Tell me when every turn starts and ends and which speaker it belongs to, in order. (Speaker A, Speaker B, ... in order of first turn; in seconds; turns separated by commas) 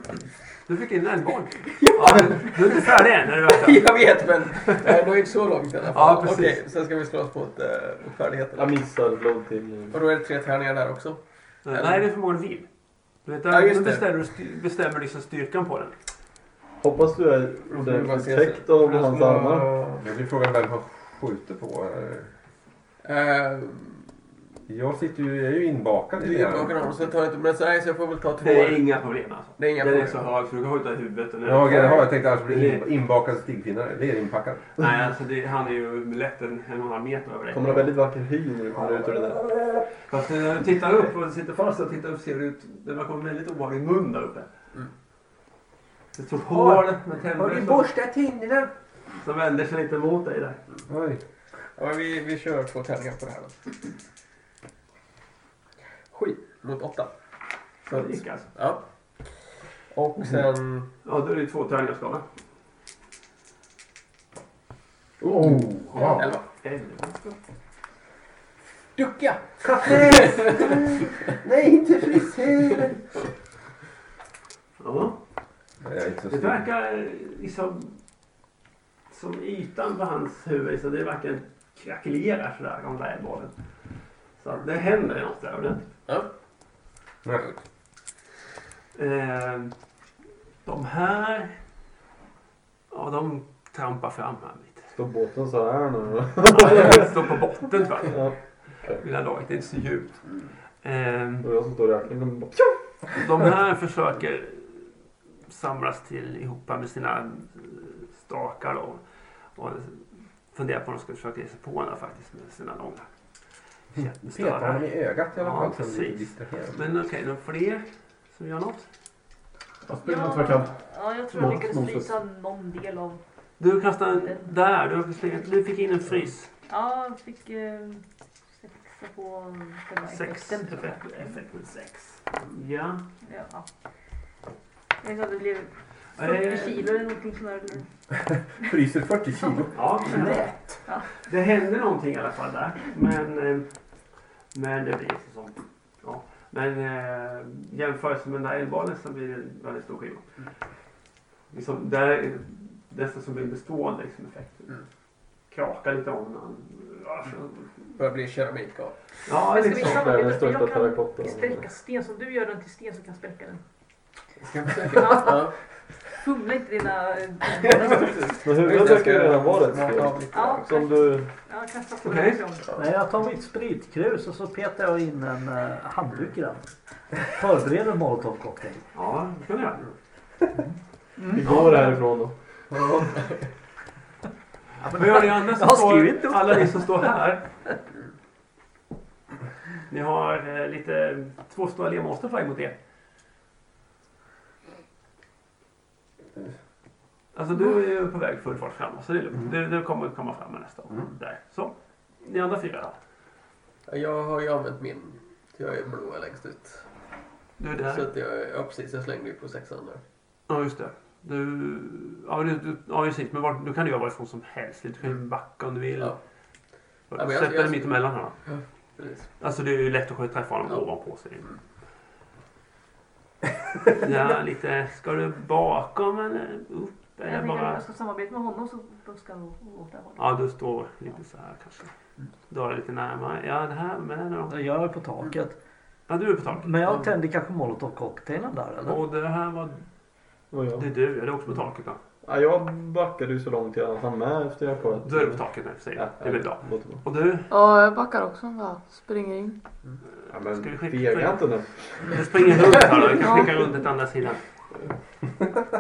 Speaker A: 0.7-4.9, Speaker B: 1.6-8.7, Speaker A: 5.9-6.6, Speaker C: 8.6-10.0, Speaker B: 9.9-12.1, Speaker A: 11.7-12.7, Speaker A: 13.2-15.9, Speaker B: 13.5-14.1, Speaker C: 16.8-19.8, Speaker B: 17.7-20.0, Speaker D: 20.0-22.3, Speaker B: 23.0-24.1, Speaker D: 24.7-26.8, Speaker B: 26.2-28.9, Speaker A: 28.4-32.9, Speaker B: 29.6-30.2, Speaker D: 31.4-34.7, Speaker A: 34.8-37.9, Speaker C: 37.5-39.5, Speaker A: 40.0-44.5, Speaker A: 46.1-47.9, Speaker D: 46.5-48.7, Speaker A: 49.1-50.6, Speaker D: 50.9-51.2, Speaker B: 51.8-53.7, Speaker B: 56.1-57.1, Speaker B: 57.9-59.3, Speaker A: 57.9-58.5, Speaker B: 59.9-60.9, Speaker A: 61.0-62.2, Speaker E: 65.3-65.9, Speaker D: 65.4-66.2, Speaker A: 65.9-67.4, Speaker B: 66.0-66.4, Speaker B: 69.0-70.7, Speaker D: 69.6-73.0, Speaker A: 74.8-75.2, Speaker D: 75.8-76.6, Speaker A: 76.3-78.0, Speaker A: 79.1-83.6, Speaker A: 84.4-85.9, Speaker A: 88.9-89.7, Speaker A: 90.7-91.6, Speaker A: 92.9-94.9, Speaker C: 94.9-97.2, Speaker A: 96.5-98.4, Speaker C: 98.0-99.0, Speaker A: 99.0-100.3, Speaker A: 100.8-101.5, Speaker C: 101.4-102.8, Speaker A: 103.1-104.9, Speaker A: 105.5-109.0, Speaker A: 109.5-113.1, Speaker A: 113.9-118.9, Speaker D: 114.0-116.8, Speaker E: 119.8-120.8, Speaker F: 120.0-123.2, Speaker E: 121.3-122.2, Speaker A: 123.6-126.5, Speaker F: 124.1-124.5, Speaker F: 126.7-131.4, Speaker A: 130.1-133.0, Speaker F: 133.2-133.7, Speaker F: 135.0-137.9, Speaker A: 136.2-136.9, Speaker D: 138.5-140.7, Speaker A: 139.8-140.5, Speaker F: 140.1-141.1, Speaker A: 141.1-143.7, Speaker A: 144.5-150.3, Speaker A: 151.5-154.8, Speaker A: 155.5-157.7, Speaker B: 157.9-159.0, Speaker A: 159.2-160.1, Speaker F: 159.5-163.6, Speaker C: 159.7-161.7, Speaker B: 164.4-165.6, Speaker F: 164.9-165.5, Speaker F: 166.1-168.4, Speaker B: 167.6-170.7, Speaker C: 168.4-171.3, Speaker F: 170.3-172.7, Speaker A: 172.0-172.4, Speaker G: 172.8-176.7, Speaker G: 177.2-178.8, Speaker A: 178.9-179.8, Speaker C: 181.3-182.4, Speaker B: 182.7-183.5, Speaker G: 184.8-186.9, Speaker A: 184.9-187.4, Speaker A: 189.9-192.8, Speaker A: 197.3-203.0, Speaker B: 203.9-206.9, Speaker A: 207.6-208.1, Speaker B: 207.8-210.0, Speaker A: 210.5-216.2, Speaker A: 217.1-218.4, Speaker B: 217.1-217.9, Speaker B: 218.4-219.3, Speaker A: 219.4-221.6, Speaker A: 223.9-227.8, Speaker F: 227.2-230.4, Speaker A: 230.2-231.9, Speaker A: 232.5-234.5, Speaker G: 234.5-235.6, Speaker A: 236.1-236.9, Speaker G: 236.6-239.0, Speaker A: 238.8-239.8, Speaker C: 240.5-240.9, Speaker A: 240.8-242.0, Speaker C: 242.2-247.0, Speaker A: 245.0-247.5, Speaker H: 247.5-249.6, Speaker C: 250.3-253.2, Speaker A: 250.3-254.4